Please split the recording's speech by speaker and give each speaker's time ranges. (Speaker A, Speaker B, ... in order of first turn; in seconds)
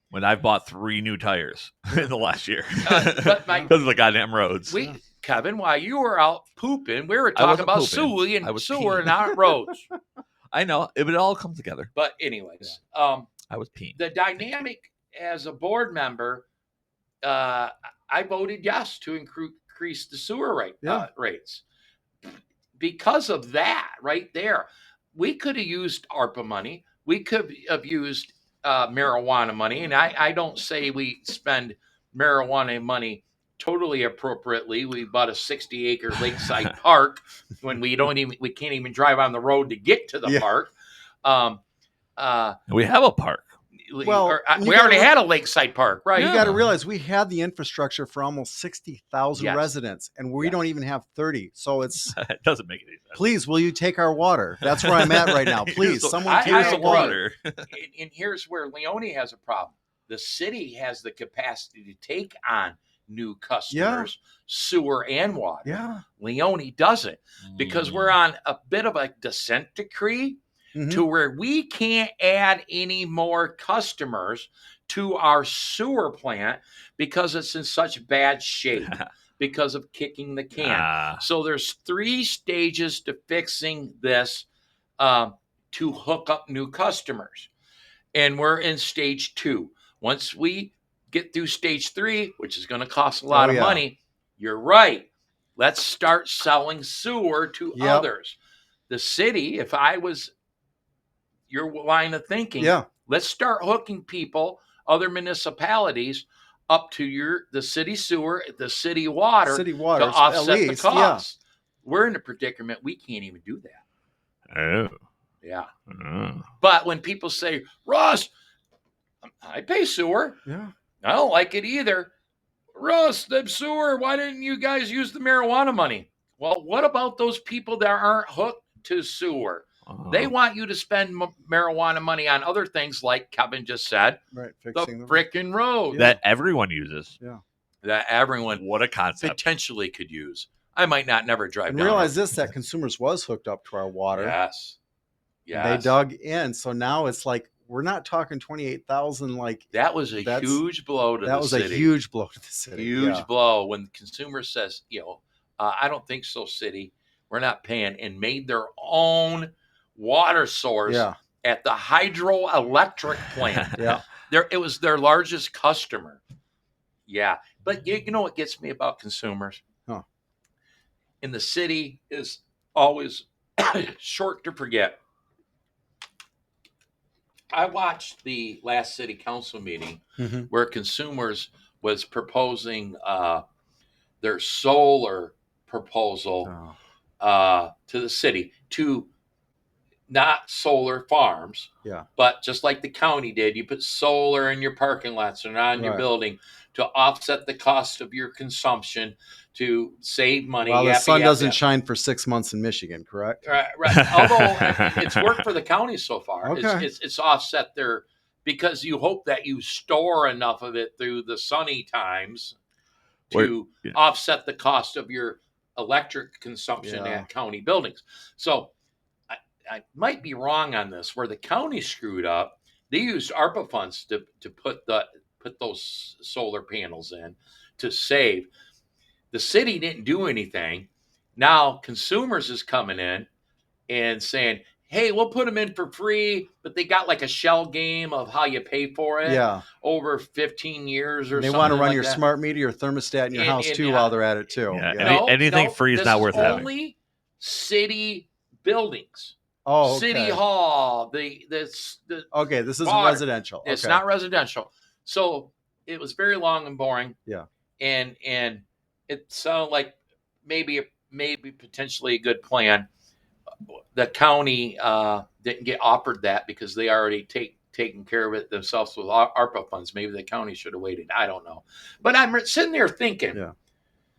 Speaker A: 0.1-4.8, 7.4-9.5, 10.5-11.9, 13.5-14.0, 42.7-43.5, 46.2-46.7, 52.0-53.3, 54.6-57.7, 67.5-68.2, 80.6-81.2, 114.5-115.0, 115.9-116.5, 129.9-130.3, 135.9-137.2, 138.5-139.4, 203.9-205.4, 213.3-214.0, 244.7-246.7
Speaker B: 2.9-3.8, 4.7-9.9, 11.9-13.4, 13.9-16.5, 17.2-21.6, 22.8-40.7, 41.2-41.6, 42.2-42.6, 43.9-46.5, 49.4-49.7, 56.2-84.5, 85.0-87.5, 88.1-98.4, 98.9-100.3, 101.5-113.8, 115.4-115.7, 116.6-118.3, 119.4-120.4, 121.0-122.1, 122.8-134.2, 134.7-136.1, 137.8-138.6, 139.2-142.2, 144.1-144.8, 145.5-146.0, 149.7-151.9, 152.7-166.2, 167.1-169.6, 171.2-175.0, 177.5-183.4, 184.2-186.5, 187.2-189.1, 190.1-201.6, 203.4-212.6, 213.3-218.7, 219.3-228.5, 229.3-233.3, 233.9-242.2, 243.3-244.2, 245.0-252.3, 252.8-257.2, 257.8-262.9, 263.9-273.4
Speaker C: 20.8-21.1, 44.0-45.1, 46.1-52.1, 53.1-57.2, 63.7-64.1, 65.7-66.0, 70.8-71.1, 93.3-93.8, 97.7-98.1, 102.6-102.9, 109.5-111.2, 120.5-120.7, 134.3-135.2, 135.9-136.2, 141.7-144.4, 145.5-150.6, 151.2-153.3, 160.9-161.2, 163.8-164.0, 180.2-180.5, 186.4-186.8, 195.8-196.1, 200.6-203.4, 206.4-206.9, 216.8-217.3, 239.2-239.6, 241.3-245.2, 246.3-246.7, 249.7-250.4, 252.3-254.0